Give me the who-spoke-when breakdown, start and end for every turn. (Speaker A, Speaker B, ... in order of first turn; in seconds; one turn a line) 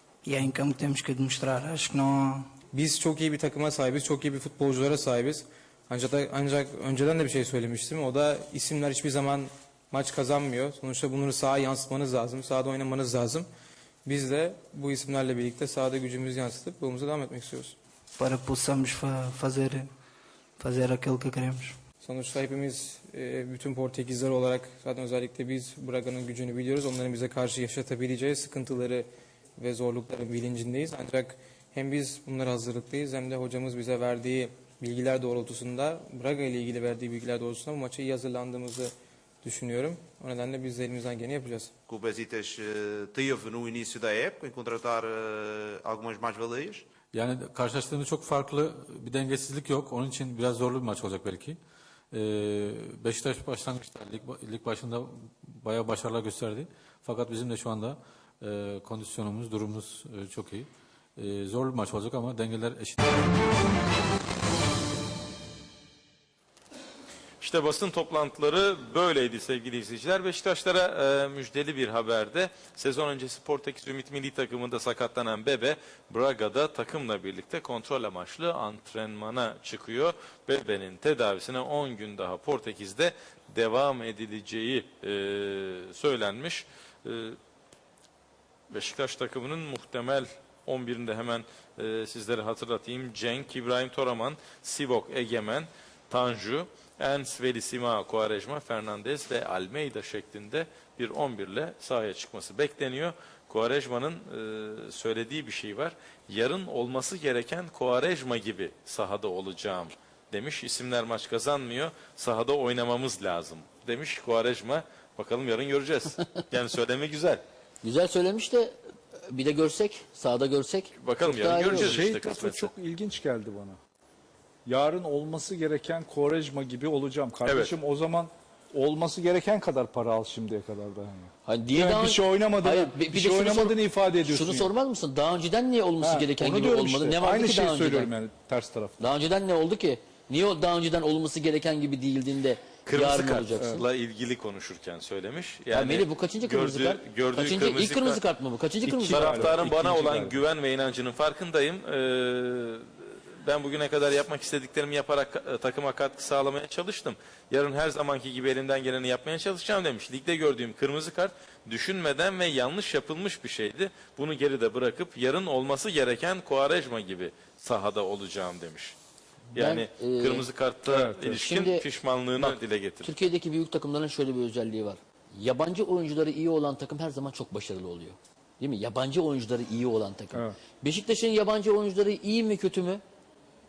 Speaker A: 0.2-2.4
Speaker B: 2.7-13.5
Speaker B: 14.0-17.8
Speaker A: 18.2-19.8
Speaker A: 20.6-21.7
Speaker B: 20.8-21.3
Speaker B: 22.0-38.9
Speaker B: 39.4-41.7
Speaker C: 41.9-46.8
Speaker D: 47.1-51.6
Speaker D: 52.1-63.2
Speaker E: 67.4-87.4
Speaker E: 88.7-117.4
Speaker F: 117.8-118.8
Speaker F: 119.3-122.0
Speaker E: 121.0-122.7
Speaker G: 121.5-123.8
Speaker G: 124.7-134.7
Speaker E: 127.5-127.7
Speaker F: 131.4-138.1
Speaker G: 136.0-139.0
Speaker F: 139.0-143.9
Speaker E: 142.9-148.2
Speaker G: 143.6-143.8
Speaker F: 145.7-149.6
Speaker G: 148.9-150.4
Speaker E: 148.9-152.9
Speaker E: 153.4-168.9
Speaker F: 169.5-170.5
Speaker E: 169.5-173.1
Speaker G: 170.9-171.5
Speaker F: 171.4-171.8
Speaker F: 173.0-183.0